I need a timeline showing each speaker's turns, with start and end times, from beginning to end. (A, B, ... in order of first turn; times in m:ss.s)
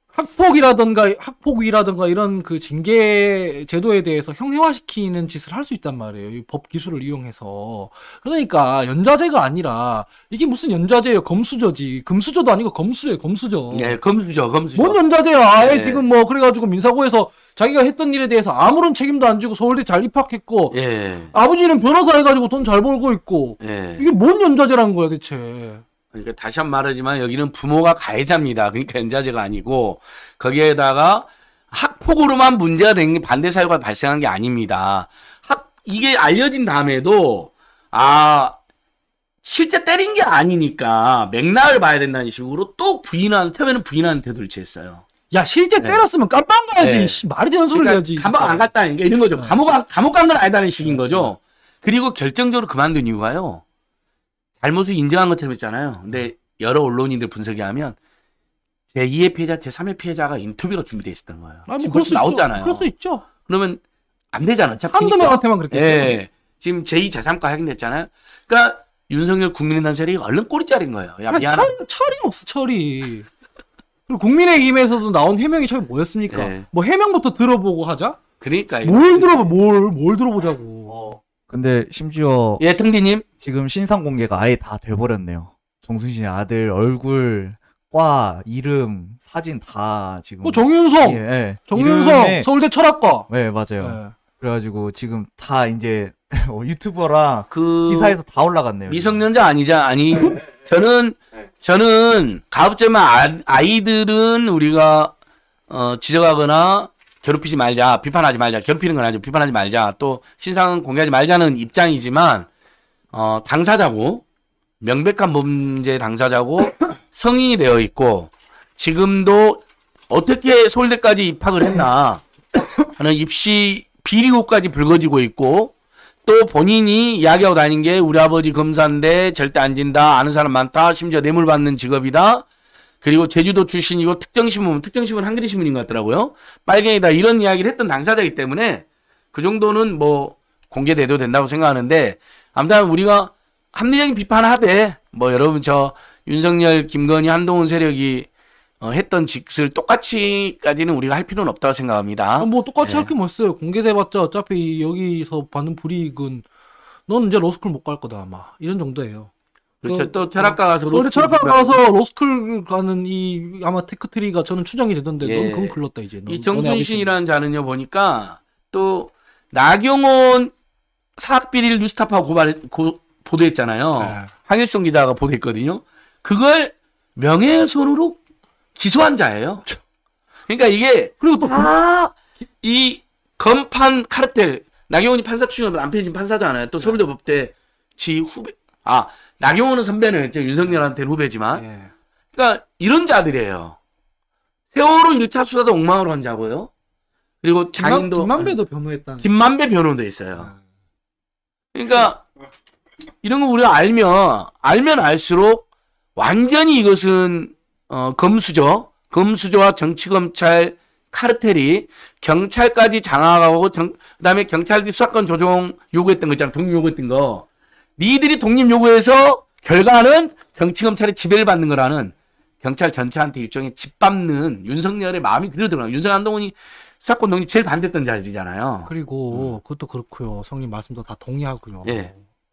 0:00.1-0:14.0 A
0:13.7-0:15.0 B
0:14.8-0:20.8 A
0:15.6-0:16.0 B
0:20.7-0:21.3 B
0:21.3-0:25.8 A
0:23.6-0:24.1 B
0:26.1-0:38.6 B
0:39.4-0:45.0 B
0:45.3-0:48.6 A
0:45.8-0:46.0 B
0:46.8-0:53.6 B
0:50.8-0:51.3 A
0:54.6-0:58.0 B
0:58.9-1:02.9 B
1:01.7-1:03.2 A
1:03.4-1:03.8 B
1:04.3-1:11.7 B
1:04.9-1:06.2 A
1:11.3-1:13.3 A
1:14.1-1:18.2 A
1:16.3-1:16.7 B
1:18.4-1:19.5 B
1:18.8-1:21.2 A
1:21.0-1:22.6 C
1:22.6-1:23.2 B
1:23.4-1:32.5 C
1:30.4-1:33.3 A
1:33.3-1:39.3 C
1:33.8-1:34.1 A
1:37.5-1:38.2 B
1:38.9-1:45.1 B
1:45.7-1:52.5 B
1:53.1-1:54.2 B
1:54.8-2:02.2 B
2:02.9-2:05.7 B
2:06.2-2:12.4 B
2:13.0-2:28.3 B
2:28.8-2:33.1 B
2:32.4-2:36.4 A
2:37.1-2:39.3 A
2:39.8-2:41.8 B
2:39.8-2:47.1 A
2:45.2-2:50.5 B
2:51.2-2:58.2 B
2:54.0-2:54.3 A
2:58.8-2:59.6 B
3:00.5-3:11.6 B
3:01.2-3:01.7 A
3:11.5-3:11.9 A
3:12.3-3:13.8 B
3:14.7-3:16.7 B
3:17.4-3:18.5 B
3:17.8-3:19.3 A
3:19.2-3:20.5 B
3:21.7-3:22.2 B
3:23.2-3:25.6 B
3:26.2-3:37.5 B
3:38.0-3:49.6 B
3:48.9-3:52.2 A
3:51.8-3:52.1 B